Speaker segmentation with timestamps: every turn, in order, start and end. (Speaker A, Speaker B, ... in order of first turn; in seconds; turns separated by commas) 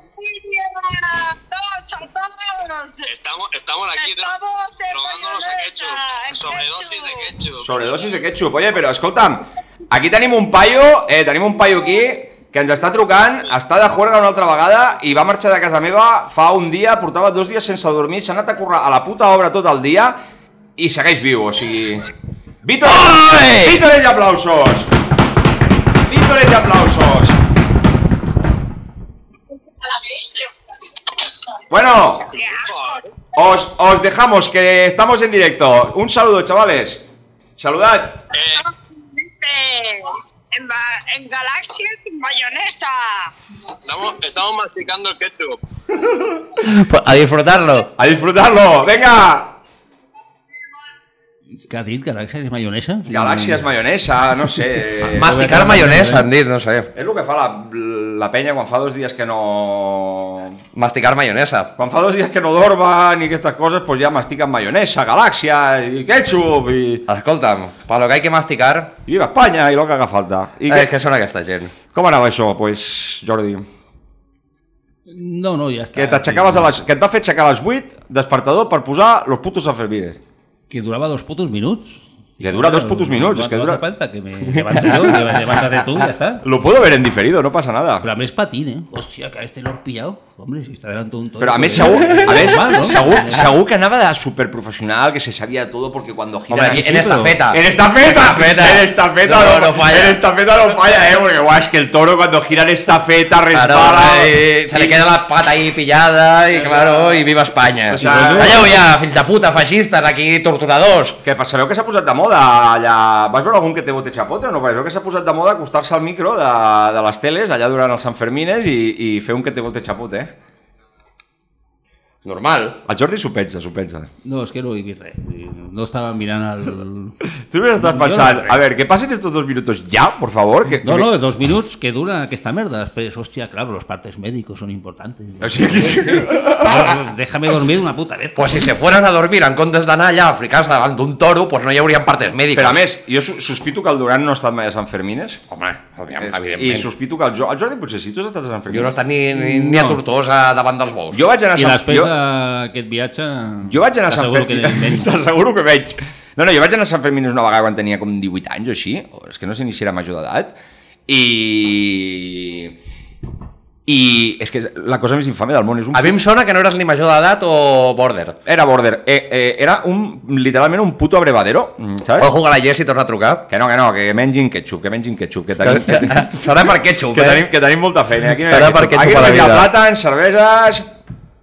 Speaker A: 0.2-3.1, Speaker B: 3.0-4.4, Speaker A: 3.9-7.3, Speaker B: 4.9-7.7, Speaker C: 7.6-20.1, Speaker C: 20.8-22.1, Speaker C: 22.6-24.9, Speaker D: 23.3-23.6, Speaker C: 26.1-27.4, Speaker A: 29.9-30.5, Speaker C: 31.7-32.3, Speaker A: 32.3-33.0, Speaker B: 32.4-33.1, Speaker C: 33.4-37.1, Speaker C: 37.6-38.2, Speaker B: 38.3-38.6, Speaker A: 38.6-43.3, Speaker B: 43.9-45.6, Speaker E: 46.6-47.9, Speaker C: 48.0-49.5, Speaker D: 51.5-53.6, Speaker C: 53.1-55.6, Speaker E: 55.1-56.9, Speaker D: 55.1-56.3, Speaker C: 56.9-60.6, Speaker E: 60.8-61.7, Speaker C: 61.8-67.0, Speaker E: 67.1-68.9, Speaker C: 69.1-70.9, Speaker E: 70.7-71.8, Speaker C: 71.9-73.7, Speaker D: 75.1-76.8, Speaker C: 76.0-80.2, Speaker D: 80.7-86.4, Speaker C: 82.4-83.8, Speaker C: 84.7-85.2, Speaker C: 86.4-88.1, Speaker D: 88.0-93.4, Speaker C: 91.4-105.0, Speaker E: 96.5-100.2, Speaker D: 96.5-97.4, Speaker E: 103.5-111.2, Speaker C: 107.9-108.7, Speaker D: 108.0-108.6, Speaker C: 111.2-120.3, Speaker E: 122.2-122.8, Speaker C: 122.9-124.1, Speaker D: 124.2-127.2, Speaker C: 127.5-131.1, Speaker D: 127.8-128.6, Speaker D: 130.8-138.7, Speaker C: 135.4-136.9, Speaker E: 138.4-142.8, Speaker C: 142.5-145.4, Speaker E: 145.5-146.9, Speaker C: 146.2-149.0, Speaker E: 148.7-151.2, Speaker D: 149.3-150.0, Speaker C: 151.1-152.1, Speaker D: 151.6-155.1, Speaker C: 153.7-160.6, Speaker C: 161.1-162.8, Speaker C: 163.9-166.2, Speaker E: 165.9-168.4, Speaker C: 168.5-172.3, Speaker E: 172.2-173.4, Speaker C: 173.5-176.5, Speaker E: 175.6-177.4, Speaker C: 177.1-180.9, Speaker E: 178.4-179.7